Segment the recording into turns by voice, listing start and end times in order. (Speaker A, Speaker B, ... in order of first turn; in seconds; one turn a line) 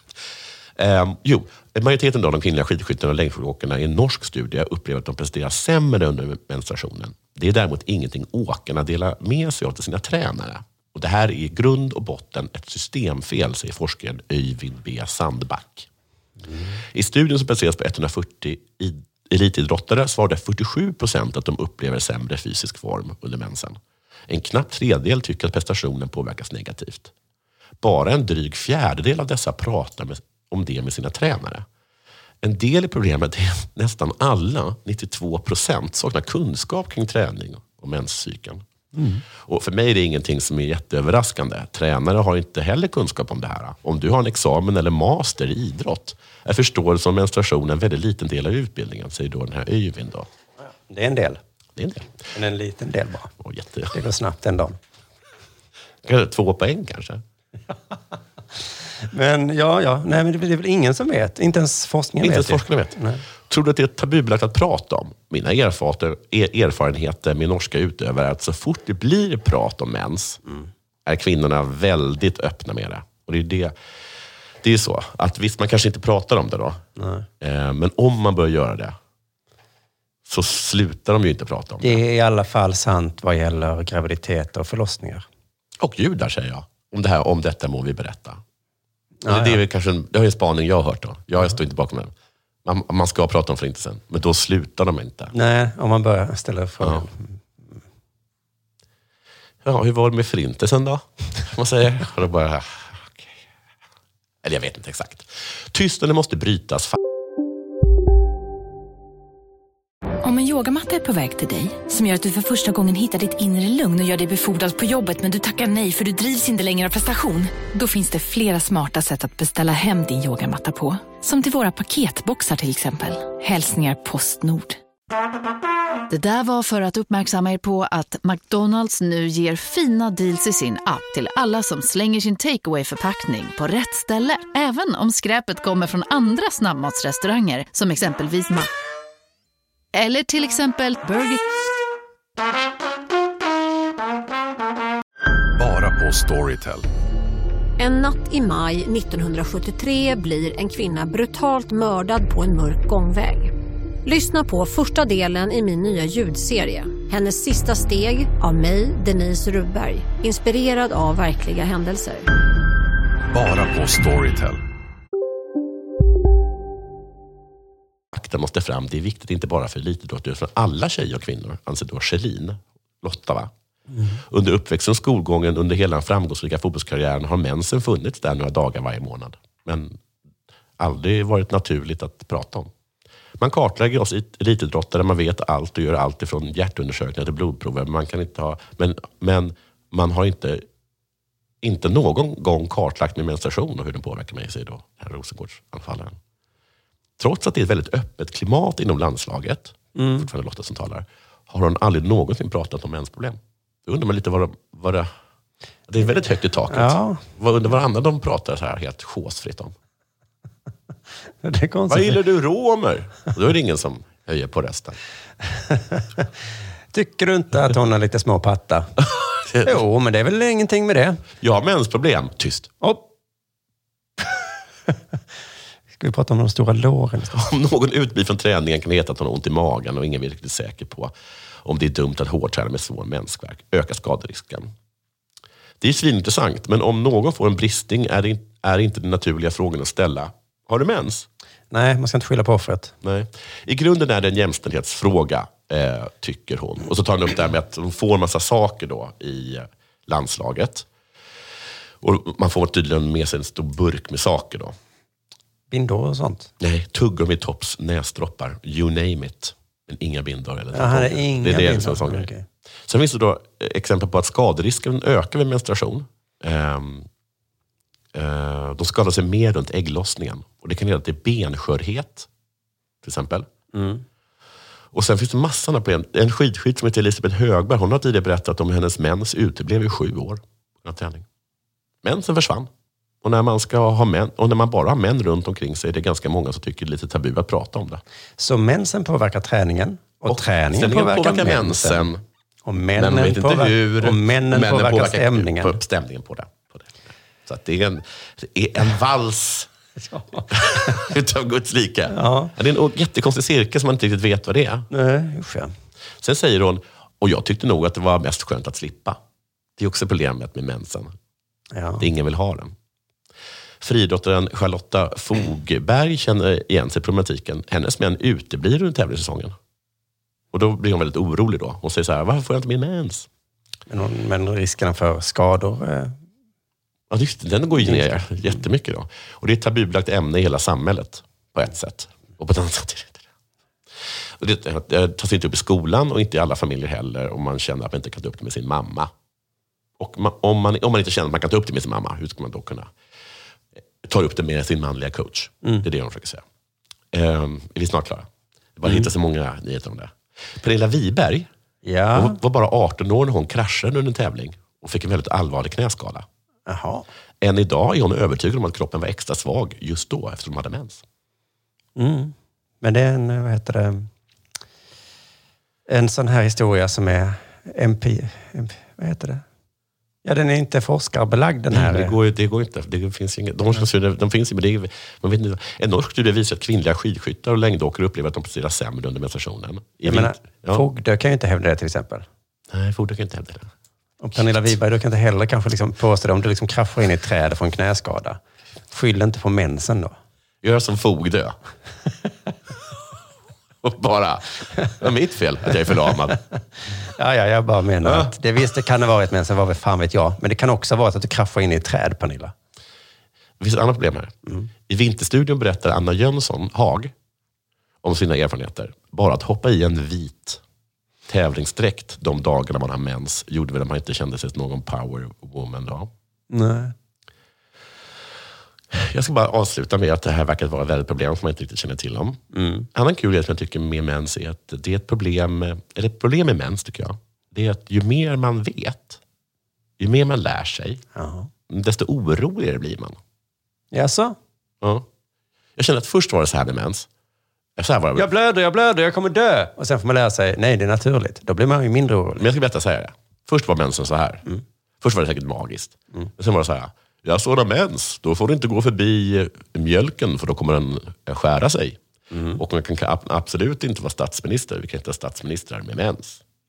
Speaker A: 0.8-15.9
Speaker B: 16.5-16.7
Speaker A: 16.9-27.1
Speaker A: 27.8-31.6
Speaker A: 32.4-38.6
Speaker B: 38.9-39.2
Speaker A: 39.3-50.3
Speaker B: 50.9-51.4
Speaker A: 51.8-52.1
Speaker B: 52.3-53.3
Speaker A: 53.4-53.9
Speaker B: 53.9-54.8
Speaker A: 56.0-57.2
Speaker B: 59.1-63.2
Speaker A: 62.2-63.0
Speaker A: 63.5-70.4
Speaker A: 71.0-73.7
Speaker A: 74.6-76.8
Speaker B: 77.0-77.2
Speaker A: 77.4-79.0
Speaker A: 80.2-82.0
Speaker B: 81.8-85.2
Speaker A: 85.8-88.4
Speaker B: 89.2-89.6
Speaker A: 89.3-92.1
Speaker A: 92.6-95.3
Speaker B: 95.3-97.4
Speaker A: 96.8-97.0
Speaker A: 99.6-103.3
Speaker A: 104.4-107.0
Speaker C: 110.2-124.7
Speaker D: 126.1-138.7
Speaker D: 139.9-141.4
Speaker E: 145.6-146.8
Speaker F: 147.8-153.5
Speaker F: 154.0-162.2
Speaker E: 163.3-164.6
Speaker A: 168.1-173.5
Speaker B: 173.9-174.2
Speaker A: 174.2-180.0
Speaker A: 180.8-182.7
Speaker A: 183.4-190.6
Speaker A: 191.6-196.2
Speaker A: 197.2-205.1
Speaker B: 199.9-200.3
Speaker A: 205.9-209.7
Speaker B: 206.7-207.2
Speaker B: 211.4-212.2
Speaker A: 211.9-215.0
Speaker B: 215.6-216.2
Speaker B: 216.9-218.9
Speaker A: 219.4-219.8
Speaker B: 219.6-221.2
Speaker A: 221.4-222.7
Speaker B: 222.8-223.1
Speaker B: 226.0-227.3
Speaker A: 227.3-231.1
Speaker A: 231.6-234.7
Speaker A: 235.8-241.3
Speaker B: 241.7-242.9
Speaker A: 243.0-250.9
Speaker A: 252.0-254.7
Speaker B: 255.7-256.5
Speaker A: 256.6-262.3
Speaker B: 260.7-262.4
Speaker A: 262.9-267.1
Speaker A: 268.1-272.3
Speaker A: 273.0-273.5
Speaker B: 273.7-274.0
Speaker A: 274.9-281.2
Speaker A: 282.0-282.7
Speaker A: 283.2-288.0
Speaker B: 288.4-292.1
Speaker A: 290.2-292.2
Speaker B: 292.6-295.8
Speaker A: 292.9-299.7
Speaker B: 300.1-301.0
Speaker A: 300.5-304.9
Speaker B: 302.1-302.5
Speaker B: 304.9-305.7
Speaker A: 306.2-309.2
Speaker A: 309.8-311.1
Speaker B: 311.7-312.1
Speaker A: 312.0-312.7
Speaker A: 313.8-319.6
Speaker A: 320.5-323.3
Speaker B: 323.9-326.1
Speaker A: 327.1-333.2
Speaker B: 327.8-328.6
Speaker A: 334.4-339.1
Speaker A: 340.0-342.9
Speaker A: 344.0-346.4
Speaker A: 347.1-351.5
Speaker B: 351.8-352.4
Speaker A: 352.1-356.2
Speaker B: 356.7-357.1
Speaker A: 357.4-361.0
Speaker B: 361.9-364.1
Speaker B: 365.9-369.4
Speaker B: 370.2-372.1
Speaker A: 371.7-380.8
Speaker B: 380.0-382.2
Speaker A: 382.7-383.7
Speaker B: 384.2-388.4
Speaker A: 384.4-384.7
Speaker B: 388.9-390.1
Speaker A: 390.6-391.6
Speaker A: 393.8-396.4
Speaker B: 397.1-402.5
Speaker A: 398.0-398.3
Speaker A: 403.6-404.3
Speaker A: 404.9-407.1
Speaker A: 408.0-410.6
Speaker A: 411.3-416.1
Speaker B: 416.5-416.9
Speaker A: 418.9-422.4
Speaker B: 422.5-422.9
Speaker A: 422.9-429.2
Speaker A: 430.0-431.0
Speaker B: 431.1-431.5
Speaker A: 431.7-433.2
Speaker B: 433.9-434.4
Speaker A: 434.8-435.1
Speaker A: 435.8-437.1
Speaker A: 437.8-438.3
Speaker B: 438.1-442.5
Speaker A: 442.4-444.4
Speaker A: 445.0-452.0
Speaker B: 452.3-452.6
Speaker A: 452.5-456.4